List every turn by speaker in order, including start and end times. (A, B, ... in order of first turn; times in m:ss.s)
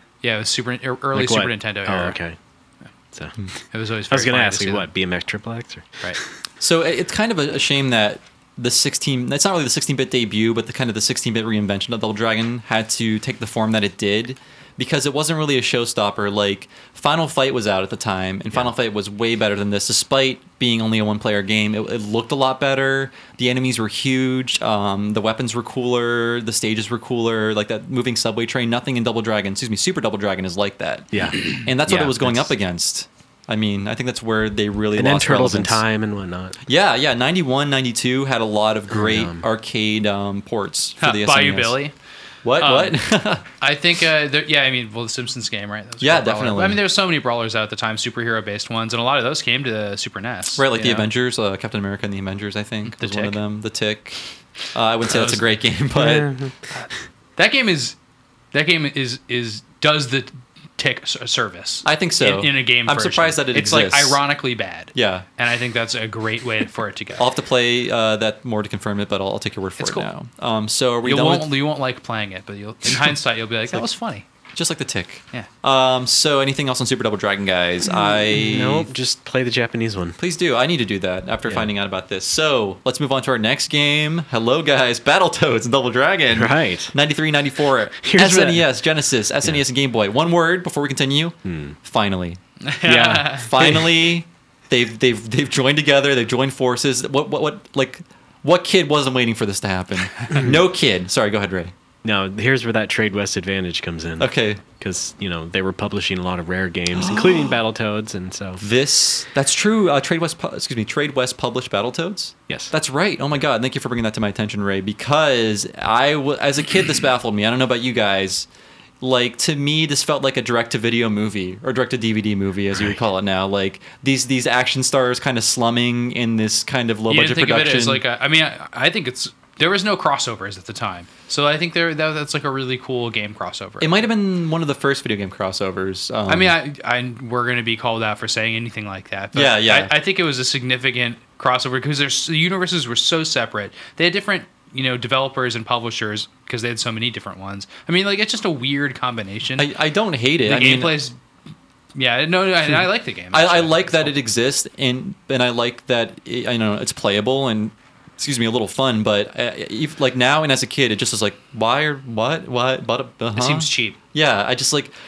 0:00.2-0:02.2 A
0:01.1-0:02.4 B
0:03.7-0:04.9 A
0:04.1-0:06.2 B
0:06.6-0:35.8 C
0:31.1-0:32.5 B
0:35.0-0:36.6 B
0:36.6-0:41.8 C
0:38.9-0:39.4 B
0:41.0-0:41.9 A
0:42.4-0:43.4 C
0:42.6-0:43.0 A
0:43.6-0:51.1 A
0:46.0-0:46.8 C
0:50.6-0:54.2 C
0:52.9-0:53.4 A
0:54.7-0:56.3 C
0:55.1-0:55.5 A
0:55.9-0:56.6 B
0:56.7-0:58.0 A
0:58.5-1:07.2 A
1:01.8-1:04.2 C
1:04.9-1:05.2 C
1:07.2-1:11.5 C
1:09.8-1:10.1 A
1:11.0-1:14.2 A
1:14.5-1:18.9 C
1:17.9-1:20.2 B
1:20.2-1:32.4 C
1:26.3-1:26.9 B
1:28.0-1:28.7 B
1:31.4-1:31.8 B
1:32.6-1:33.5 A
1:32.8-1:34.0 B
1:33.3-1:41.7 C
1:40.3-1:40.6 B
1:42.0-1:48.6 B
1:44.2-1:44.6 C
1:47.0-1:47.5 C
1:48.6-1:58.5 C
1:59.0-2:08.0 C
2:07.1-2:13.9 A
2:13.8-2:16.6 C
2:16.3-2:29.7 A
2:19.3-2:19.9 C
2:29.6-2:31.0 C
2:30.4-2:31.2 A
2:31.9-2:34.1 A
2:33.3-2:44.9 C
2:43.3-2:44.0 A